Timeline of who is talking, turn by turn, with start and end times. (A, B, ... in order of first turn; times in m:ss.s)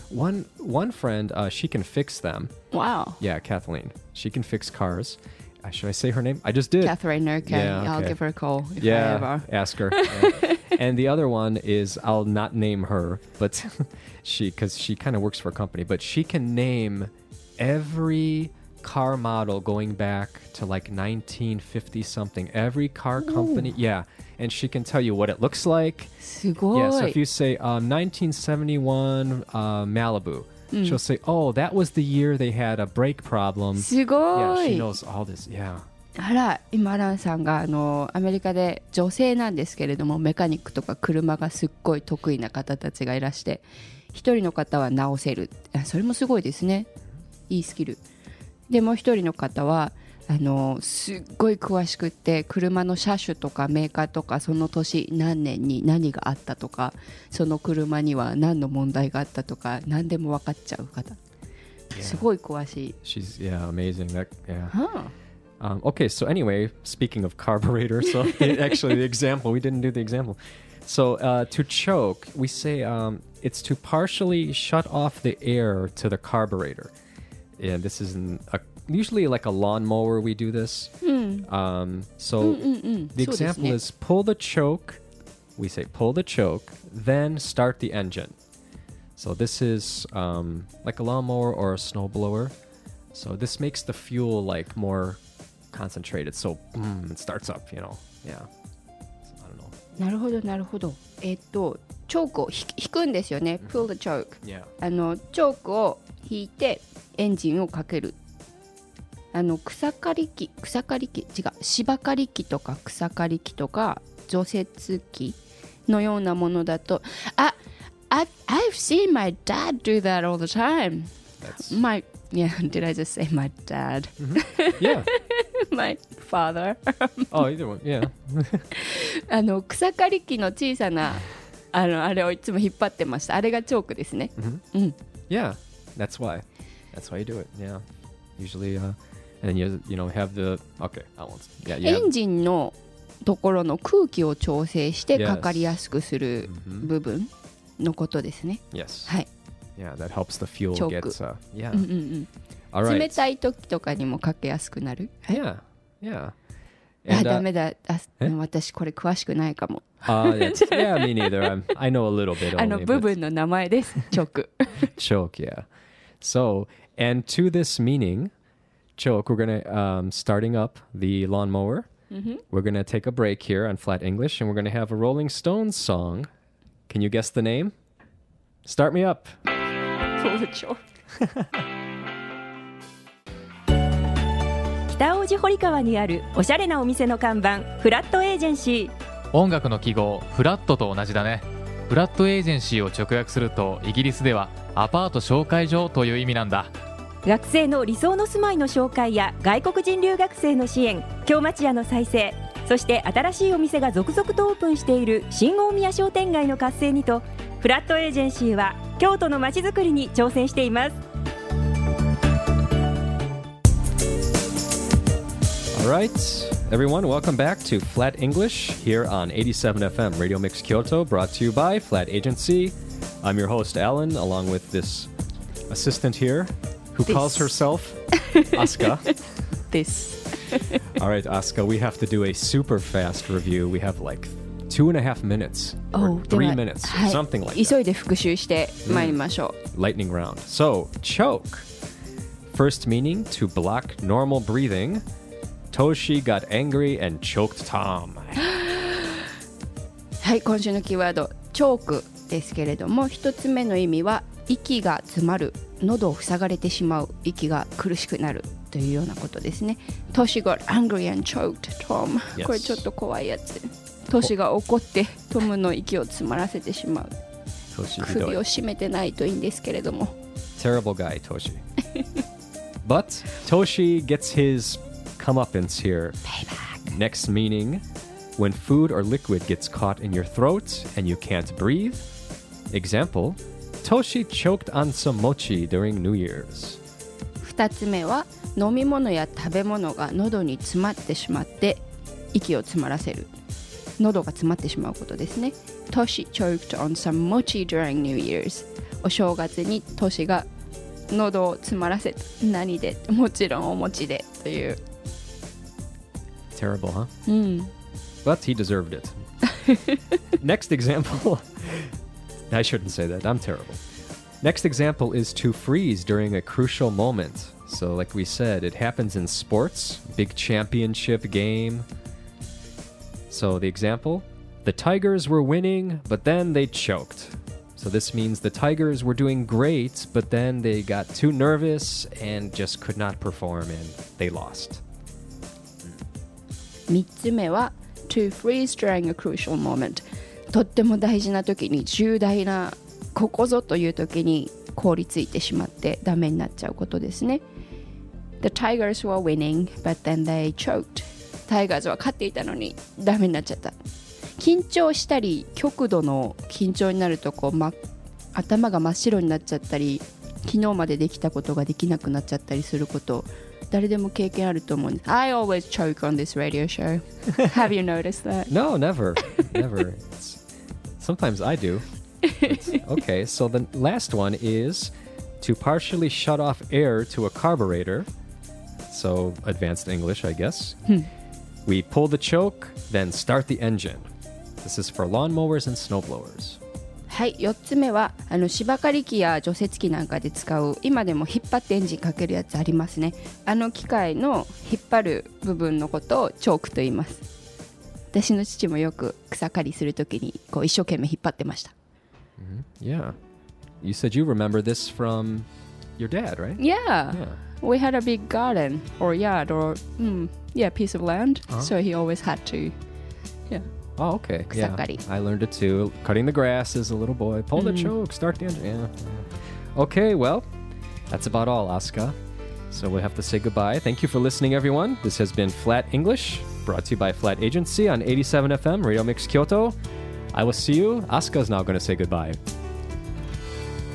0:00.1-0:02.5 A
0:02.7-0:03.2 B
0:03.2-0:08.2 A
0:06.8-0:10.7 B
0:08.8-0:26.1 A
0:23.2-0:23.7 B
0:26.2-0:27.2 B
0:26.7-0:35.9 A
0:30.7-0:31.0 B
0:33.8-0:34.9 B
0:36.2-0:46.9 B
0:47.5-0:48.0 B
0:48.7-1:01.2 B
1:01.9-1:03.0 B
1:01.9-1:02.3 A
1:03.0-1:04.7 A
1:04.7-1:05.1 B
1:05.6-1:16.9 A
1:08.5-1:08.8 B
1:17.6-1:20.9 A
1:21.0-1:21.5 B
1:21.4-1:25.0 A
1:22.4-1:23.8 B
1:25.6-1:28.4 A
1:29.2-1:32.5 A
1:33.1-1:35.2 A
1:35.7-1:38.5 A
1:39.2-1:39.8 A
1:40.0-1:48.2 B
1:43.6-1:43.9 A
1:44.4-1:44.7 A
1:49.3-1:57.6 B
1:58.1-2:07.4 B
2:01.4-2:01.8 A
2:04.2-2:05.1 A
2:07.3-2:08.7 A
2:08.7-2:15.0 B
2:14.4-2:14.6 A
2:15.3-2:17.8 A
2:18.4-2:22.1 A
2:21.7-2:29.3 B
2:25.1-2:25.8 A
2:26.5-2:26.9 A
2:28.7-2:29.1 A
2:29.8-2:31.9 A
2:30.7-2:31.2 B
2:31.7-2:32.3 B
2:32.7-2:33.2 A
2:32.8-2:35.4 B
2:35.3-2:36.3 A
2:37.0-2:37.4 A
2:37.1-2:41.6 B
2:40.0-2:43.1 A
2:42.4-2:44.9 B
2:44.8-2:45.6 A
2:46.2-2:48.3 A
2:49.0-2:51.9 A
2:52.1-2:52.4 B
2:52.5-2:56.3 A
2:56.9-2:57.7 A
2:58.6-2:59.3 A
3:00.2-3:00.8 B
3:04.9-3:08.9 C
3:09.3-3:16.7 D
3:17.2-3:31.0 C
3:35.7-3:45.1 A
3:45.7-3:49.2 A
3:47.1-3:47.5 B
3:48.1-3:49.2 B
3:49.7-3:50.9 B
3:50.8-3:57.8 A
3:55.9-3:59.6 B
3:58.8-3:59.2 A
3:59.7-4:01.7 A
4:02.5-4:05.0 A
4:05.7-4:08.4 A
4:10.2-4:27.1 B
4:22.3-4:22.8 A
4:27.7-4:28.4 A
4:28.0-4:30.1 B
4:30.6-4:31.6 A
4:32.8-4:37.8 A
4:36.4-4:36.8 B
4:38.4-4:42.1 A
4:42.7-4:46.8 A
4:47.4-4:53.3 B
4:54.0-5:00.5 B
5:01.1-5:04.8 B
5:06.5-5:07.1 A
5:07.2-5:07.7 B
5:08.2-5:09.2 A
5:10.4-5:12.0 A
5:12.5-5:13.8 A
5:14.4-5:21.9 A
5:23.3-5:34.8 A
5:36.9-5:47.4 B
5:48.4-5:53.8 B
5:54.4-5:57.8 B
5:58.3-6:08.5 B
6:08.5-6:10.4 A
6:11.0-6:11.8 A
6:12.2-6:12.8 B
6:12.3-6:18.1 A
6:18.9-6:21.0 A
6:21.6-6:24.1 A
6:24.6-6:26.6 A
6:27.1-6:37.2 B
6:38.1-6:41.7 B
6:42.4-6:43.2 A
6:43.8-6:45.5 A
6:46.0-6:47.4 A
6:46.6-6:52.7 B
6:54.0-7:00.5 A
6:54.5-6:55.0 B
6:57.6-6:57.9 B
7:01.1-7:02.1 A
7:02.7-7:09.8 A
7:10.3-7:12.4 A